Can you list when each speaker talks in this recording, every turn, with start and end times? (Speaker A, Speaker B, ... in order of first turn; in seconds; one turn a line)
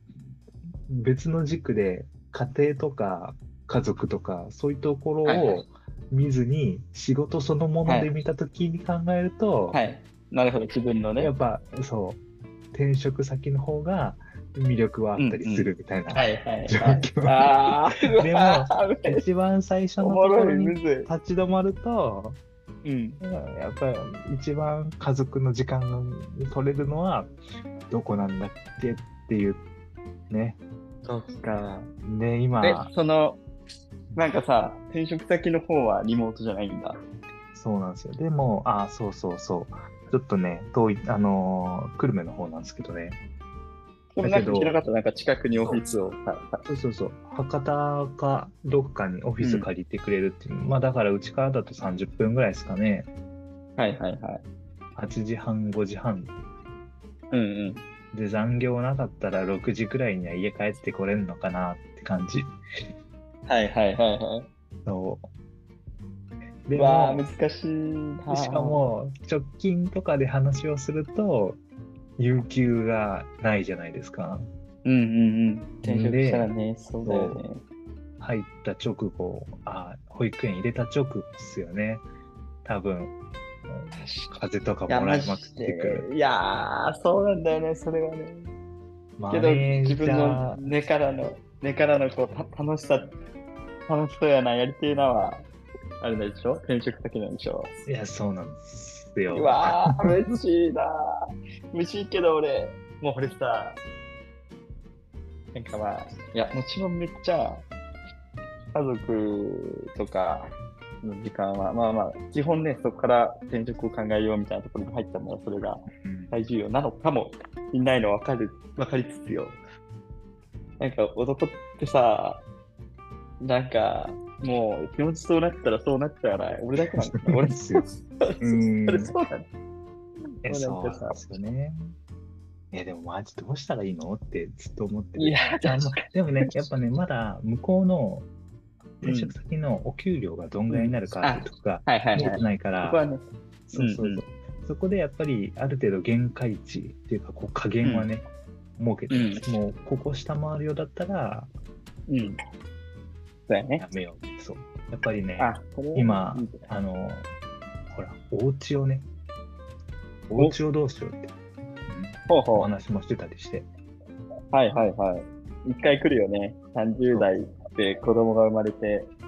Speaker A: 0.9-9.8
Speaker B: 5.2-5.7
Speaker B: 7.8-8.1
Speaker B: 9.7-11.3
Speaker A: 11.2-12.2
Speaker A: 12.7-17.5
Speaker B: 15.2-19.2
Speaker A: 18.1-22.4
Speaker B: 20.0-21.1
Speaker B: 22.8-23.2
Speaker A: 23.2-27.3
Speaker A: 27.9-29.6
Speaker A: 30.3-30.6
Speaker B: 31.0-31.9
Speaker A: 32.0-32.9
Speaker B: 32.6-33.4
Speaker B: 34.1-37.0
Speaker A: 37.5-43.2
Speaker B: 44.2-46.6
Speaker A: 44.2-44.8
Speaker A: 45.5-45.9
Speaker A: 46.7-53.1
Speaker B: 49.4-49.7
Speaker B: 53.8-54.4
Speaker A: 55.0-56.3
Speaker B: 57.3-57.8
Speaker A: 58.1-62.5
Speaker B: 63.5-64.5
Speaker A: 64.8-65.2
Speaker A: 66.7-67.2
Speaker B: 66.7-68.8
Speaker A: 68.3-71.6
Speaker A: 72.2-74.5
Speaker B: 74.8-77.6
Speaker A: 75.8-76.5
Speaker A: 77.0-77.4
Speaker A: 78.2-82.0
Speaker A: 82.6-83.1
Speaker A: 83.7-86.1
Speaker B: 84.0-84.3
Speaker B: 84.9-88.5
Speaker A: 89.2-90.7
Speaker B: 89.3-93.1
Speaker B: 93.9-95.4
Speaker B: 96.0-97.7
Speaker A: 97.8-100.1
Speaker B: 99.3-101.1
Speaker B: 101.7-103.8
Speaker B: 105.5-107.6
Speaker B: 108.7-110.4
Speaker B: 111.0-119.6
Speaker A: 116.0-116.4
Speaker B: 120.8-122.4
Speaker B: 123.4-129.4
Speaker A: 127.2-127.9
Speaker A: 128.4-129.1
Speaker B: 130.4-131.2
Speaker A: 130.4-131.9
Speaker A: 132.7-138.3
Speaker B: 135.2-136.0
Speaker A: 139.0-143.0
Speaker B: 139.0-139.3
Speaker B: 140.7-144.2
Speaker A: 143.7-148.2
Speaker B: 147.8-148.1
Speaker A: 148.8-151.5
Speaker B: 149.1-149.4
Speaker B: 152.1-152.3
Speaker B: 153.5-153.8
Speaker A: 153.8-157.3
Speaker B: 155.4-156.7
Speaker A: 157.9-159.1
Speaker A: 160.3-161.3
Speaker A: 161.9-163.7
Speaker B: 162.3-162.7
Speaker B: 164.5-169.1